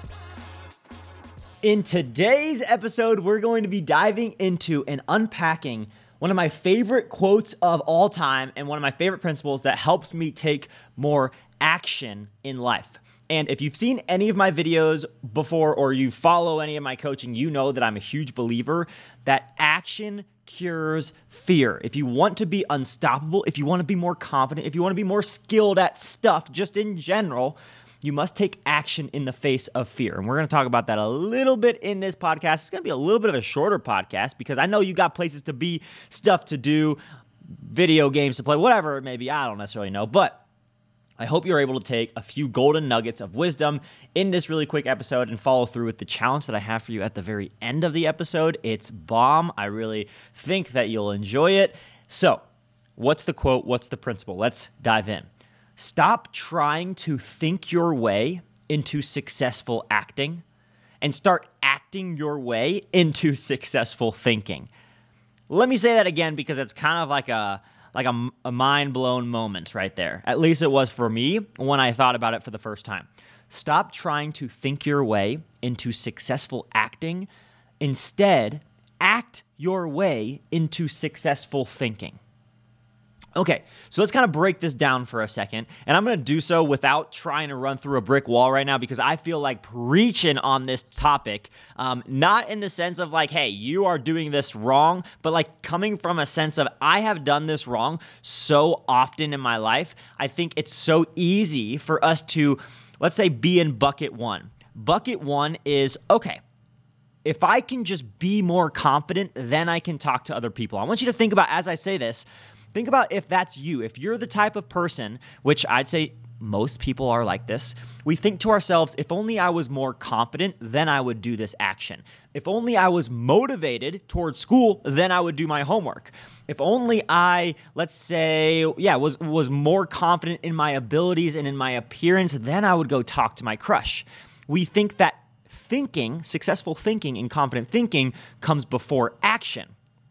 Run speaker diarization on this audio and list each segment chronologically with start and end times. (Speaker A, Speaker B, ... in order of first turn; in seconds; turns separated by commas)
Speaker A: 1.6-37.0, Speaker A: 37.5-40.5, Speaker A: 41.2-52.4, Speaker A: 53.0-60.4, Speaker A: 61.0-64.7, Speaker A: 65.5-77.3, Speaker A: 77.8-82.2, Speaker A: 83.4-106.4, Speaker A: 107.2-139.7